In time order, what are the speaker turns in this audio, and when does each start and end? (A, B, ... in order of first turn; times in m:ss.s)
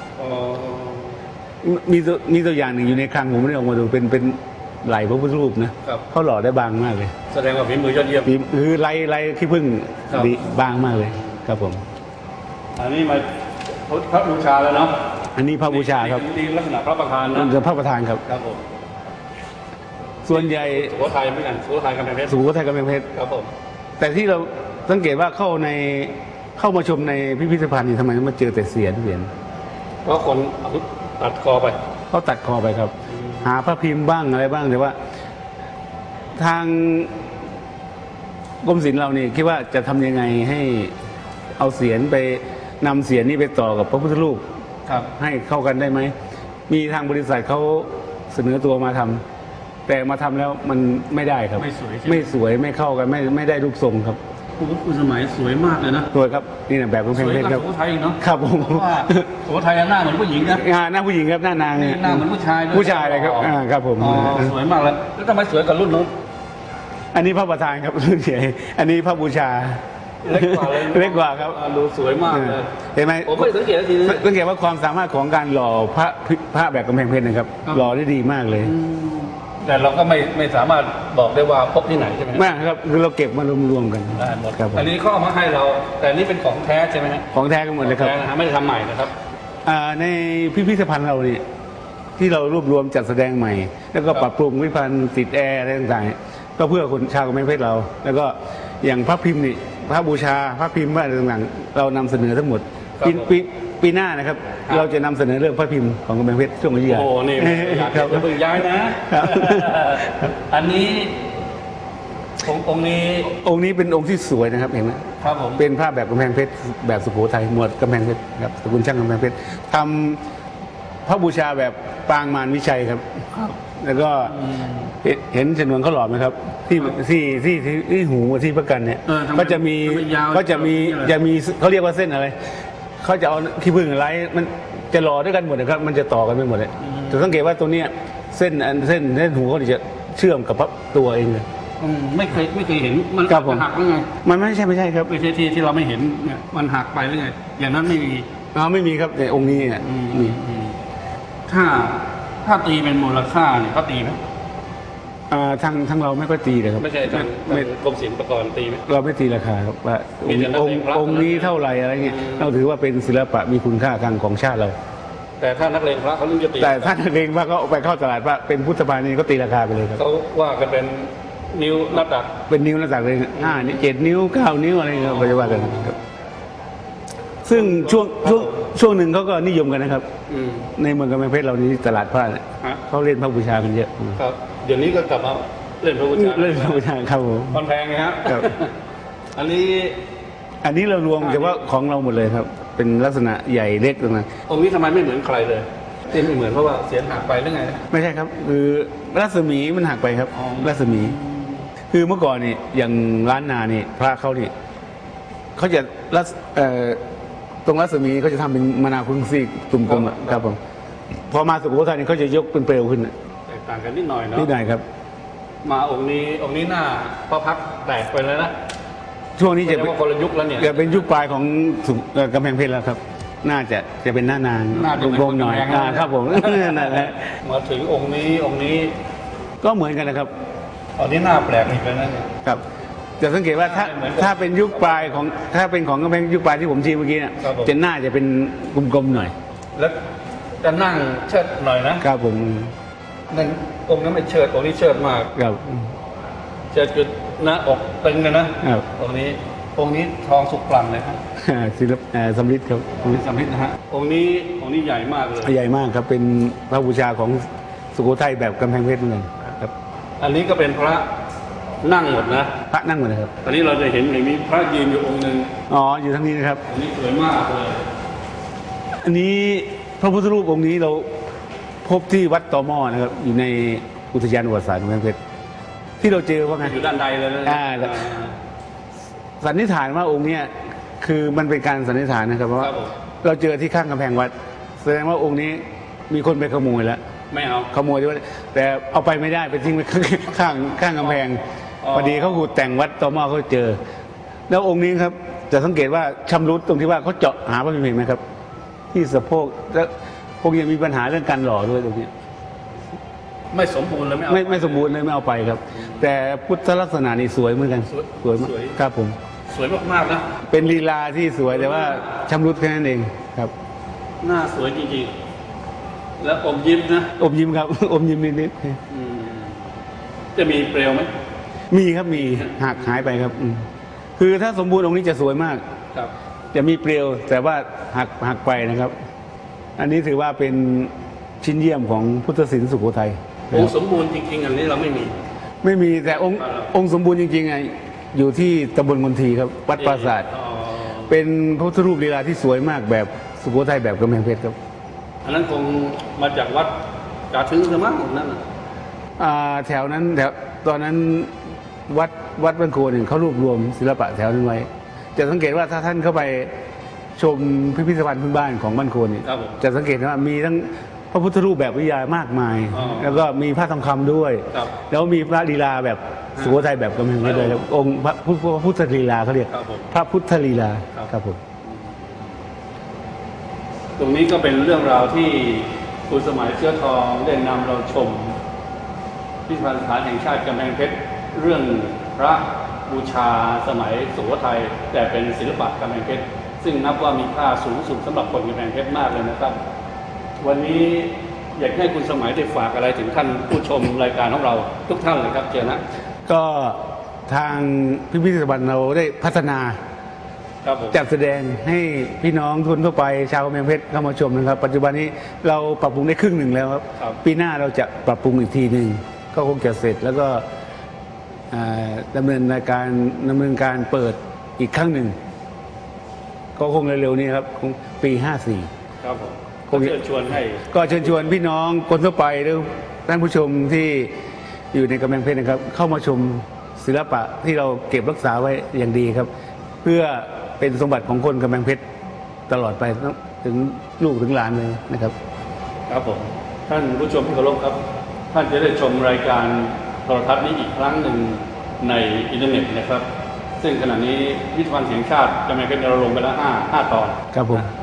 0:00.2-0:01.2 A
0:01.6-0:07.1 B
0:07.3-0:08.3 A
0:08.2-0:11.8 B
0:10.1-0:10.4 A
0:12.8-0:13.3 A
0:13.9-0:15.0 A
0:15.3-0:16.2 B
0:15.6-0:17.5 A
0:17.3-0:18.2 B
0:18.2-0:18.6 A
0:20.2-0:20.9 B
0:20.3-0:22.4 A
0:22.2-0:23.1 B
0:23.1-0:23.5 A
0:24.0-0:29.3 B
0:30.0-0:31.8 A
0:32.1-0:35.0 B
0:36.4-0:37.1 B
0:38.6-0:40.9 B
0:41.6-0:44.4 B
0:45.1-0:46.1 B
0:46.7-0:49.2 B
0:49.9-0:54.2 B
0:51.6-0:52.4 A
0:54.6-0:56.1 A
0:56.1-0:57.6 B
0:57.1-1:00.6 A
0:58.2-0:59.3 B
1:00.5-1:04.5 B
1:01.7-1:06.1 A
1:07.1-1:11.6 B
1:10.2-1:12.7 A
1:12.3-1:18.7 B
1:13.2-1:14.3 A
1:17.7-1:17.9 A
1:18.6-1:22.5 A
1:22.3-1:24.9 B
1:24.2-1:29.1 A
1:27.3-1:28.2 B
1:29.6-1:31.4 B
1:32.2-1:48.3 B
1:43.0-1:43.3 A
1:46.8-1:51.3 A
1:48.9-1:50.0 B
1:52.4-1:53.3 A
1:53.3-2:00.2 B
1:55.2-1:55.6 A
2:01.1-2:12.3 B
2:04.3-2:04.9 A
2:09.1-2:11.2 A
2:13.0-2:21.4 B
2:16.8-2:17.2 A
2:21.8-2:24.1 A
2:23.3-2:23.7 B
2:24.2-2:25.1 B
2:25.1-2:28.3 A
2:28.5-2:30.4 B
2:29.5-2:30.8 A
2:31.5-2:34.2 A
2:35.3-2:37.7 B
2:36.8-2:38.8 A
2:38.8-2:44.8 B
2:40.2-2:42.5 A
2:45.4-2:47.0 A
2:46.6-2:50.0 B
2:50.0-2:52.4 A
2:52.4-2:56.0 B
2:53.4-2:53.9 A
2:54.9-2:56.0 A
2:57.4-3:00.1 B
2:57.5-2:58.5 A
3:00.3-3:00.7 A
3:00.8-3:04.2 B
3:04.2-3:06.8 A
3:06.1-3:07.6 B
3:07.5-3:08.7 A
3:09.3-3:10.0 A
3:10.6-3:14.3 B
3:11.2-3:11.6 A
3:14.5-3:17.9 A
3:17.9-3:21.2 B
3:20.3-3:21.7 A
3:21.9-3:24.5 B
3:25.6-3:27.0 B
3:27.6-3:30.6 B
3:29.8-3:30.4 A
3:31.3-3:33.1 B
3:33.5-3:34.5 A
3:34.3-3:34.8 B
3:35.6-3:38.5 A
3:39.4-3:39.9 B
3:39.6-3:41.0 A
3:40.6-3:47.3 B
3:44.7-3:48.9 A
3:49.6-3:50.3 B
3:51.0-3:52.3 A
3:53.2-3:59.3 B
3:53.5-3:55.2 A
3:57.4-3:57.7 A
4:00.6-4:02.0 A
4:02.0-4:02.7 B
4:03.3-4:05.3 A
4:05.3-4:05.8 B
4:06.7-4:11.2 A
4:11.4-4:13.2 B
4:13.0-4:15.6 A
4:15.4-4:19.7 B
4:20.2-4:21.1 A
4:21.8-4:22.5 A
4:22.7-4:23.3 B
4:23.4-4:25.6 A
4:25.7-4:26.6 B
4:26.7-4:27.9 A
4:29.0-4:31.1 B
4:31.8-4:35.2 B
4:36.0-4:36.8 B
4:36.4-4:38.4 A
4:37.4-4:38.0 B
4:39.4-4:47.0 B
4:42.6-4:42.9 A
4:47.3-4:47.7 A
4:47.7-4:51.4 B
4:51.8-4:52.5 A
4:51.9-4:53.8 B
4:54.5-4:58.2 B
4:58.9-5:02.1 B
5:03.5-5:04.9 A
5:04.3-5:09.2 B
5:07.9-5:08.8 A
5:09.5-5:10.3 A
5:10.5-5:13.5 B
5:11.5-5:12.0 A
5:14.2-5:15.1 A
5:16.2-5:17.2 A
5:17.2-5:18.8 B
5:18.9-5:19.6 A
5:20.3-5:21.1 A
5:21.7-5:25.6 B
5:26.5-5:28.9 B
5:29.8-5:33.7 B
5:33.5-5:35.2 A
5:35.6-5:40.3 B
5:36.1-5:36.7 A
5:39.8-5:41.1 A
5:41.1-5:44.6 B
5:45.2-5:48.4 A
5:49.2-5:51.3 B
5:51.9-5:56.5 B
5:57.2-6:11.4 B
5:59.2-5:59.6 A
6:02.7-6:03.2 A
6:07.2-6:07.6 A
6:09.5-6:09.9 A
6:14.0-6:18.4 A
6:19.5-6:29.6 A
6:30.4-6:35.8 A
6:36.3-6:39.8 B
6:40.6-6:41.0 A
6:40.9-6:50.4 B
6:51.5-6:55.1 B
6:56.6-6:58.7 B
6:59.0-7:01.4 A
6:59.7-7:00.0 B
7:00.7-7:04.1 B
7:04.7-7:09.3 B
7:09.8-7:11.8 B
7:12.5-7:15.1 B
7:15.9-7:17.8 A
7:18.3-7:23.1 A
7:23.6-7:27.2 A
7:27.3-7:27.7 B